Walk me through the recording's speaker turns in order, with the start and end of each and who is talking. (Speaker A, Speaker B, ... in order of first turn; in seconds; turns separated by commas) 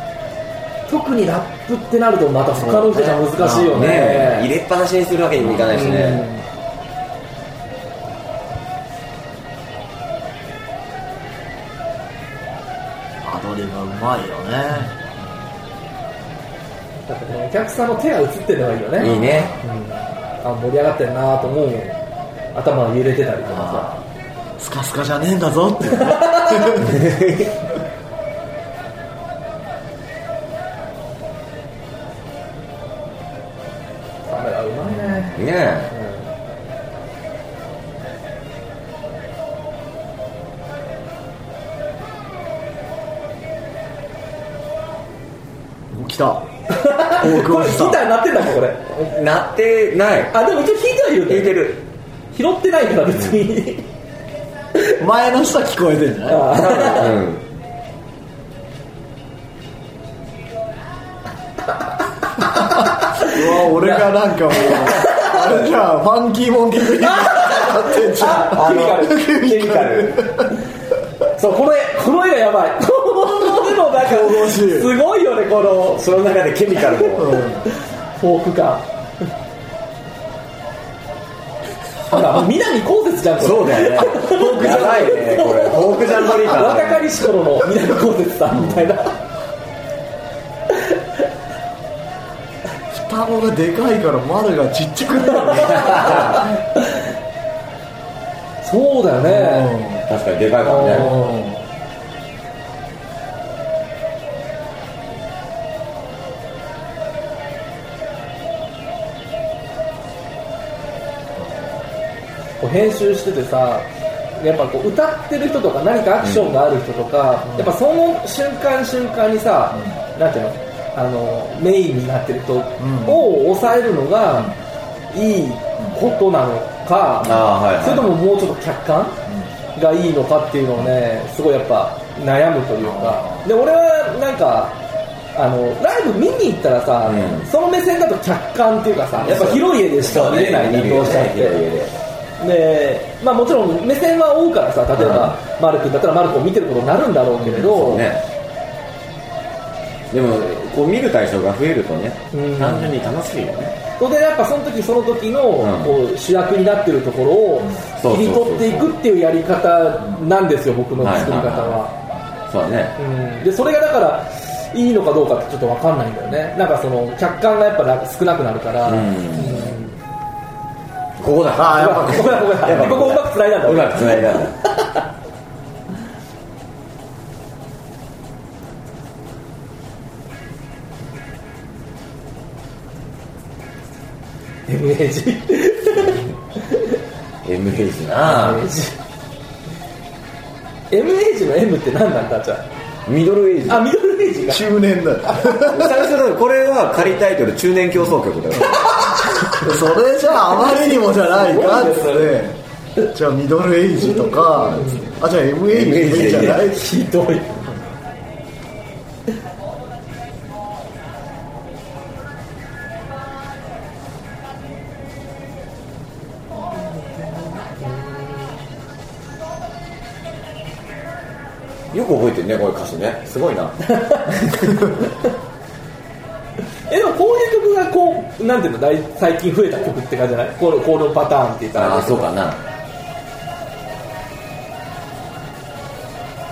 Speaker A: 0.9-4.5, Speaker B: 2.6-3.8, Speaker C: 2.9-6.3, Speaker A: 5.7-6.5, Speaker B: 13.2-15.1, Speaker A: 17.1-22.0, Speaker C: 19.0-19.5, Speaker B: 19.0-19.6, Speaker A: 22.5-24.0, Speaker B: 23.5-24.0, Speaker B: 24.6-27.1, Speaker A: 25.9-26.9, Speaker C: 26.8-27.6, Speaker A: 34.3-35.4, Speaker B: 34.9-35.3, Speaker C: 35.3-35.9, Speaker A: 35.9-36.3, Speaker B: 45.9-46.5, Speaker A: 46.7-48.9, Speaker B: 47.1-48.1, Speaker C: 48.9-50.3, Speaker A: 50.3-51.7, Speaker C: 51.3-51.8, Speaker A: 52.3-53.9, Speaker B: 55.0-56.8, Speaker A: 56.3-57.2, Speaker C: 56.6-57.4, Speaker A: 62.8-65.5, Speaker B: 63.2-70.5, Speaker A: 67.0-69.4, Speaker C: 68.3-70.2, Speaker A: 71.4-76.1, Speaker B: 73.4-74.9, Speaker C: 75.9-77.4, Speaker B: 77.2-77.7, Speaker A: 77.7-78.9, Speaker A: 82.1-89.2, Speaker C: 83.4-87.2, Speaker B: 88.5-88.9, Speaker B: 92.9-96.5, Speaker A: 95.3-97.0, Speaker C: 95.7-96.3, Speaker A: 98.6-99.8, Speaker B: 99.2-100.0, Speaker C: 100.1-101.2, Speaker A: 100.6-101.5, Speaker B: 100.9-101.6, Speaker B: 111.4-111.7, Speaker A: 112.6-124.5, Speaker C: 116.2-116.5, Speaker B: 122.8-123.3, Speaker A: 125.1-129.2, Speaker C: 127.2-128.1, Speaker A: 129.8-134.8, Speaker B: 132.8-133.4, Speaker A: 135.3-141.6, Speaker C: 137.1-137.5, Speaker C: 139.2-142.0, Speaker A: 142.4-148.1, Speaker C: 145.0-145.4, Speaker C: 147.4-148.2, Speaker C: 150.1-153.8, Speaker A: 152.3-152.9, Speaker A: 154.0-161.9, Speaker C: 155.6-156.0, Speaker C: 158.0-158.9, Speaker C: 161.0-161.8, Speaker C: 162.5-163.0, Speaker A: 163.0-170.0, Speaker C: 168.8-169.8, Speaker C: 171.2-174.6, Speaker B: 171.6-172.3, Speaker A: 171.7-174.9, Speaker A: 184.7-187.0, Speaker C: 187.4-188.7, Speaker A: 188.2-189.0, Speaker A: 190.9-192.7, Speaker C: 193.1-193.9, Speaker A: 193.7-194.7, Speaker B: 194.5-196.1, Speaker C: 195.5-199.3, Speaker A: 198.8-199.6, Speaker B: 199.6-202.6, Speaker A: 201.2-202.4, Speaker B: 203.1-206.9, Speaker A: 204.0-205.1, Speaker C: 205.7-206.7, Speaker A: 206.5-207.7, Speaker A: 216.6-218.6, Speaker C: 221.9-223.8, Speaker A: 223.9-224.9, Speaker A: 226.9-232.3, Speaker C: 231.8-232.6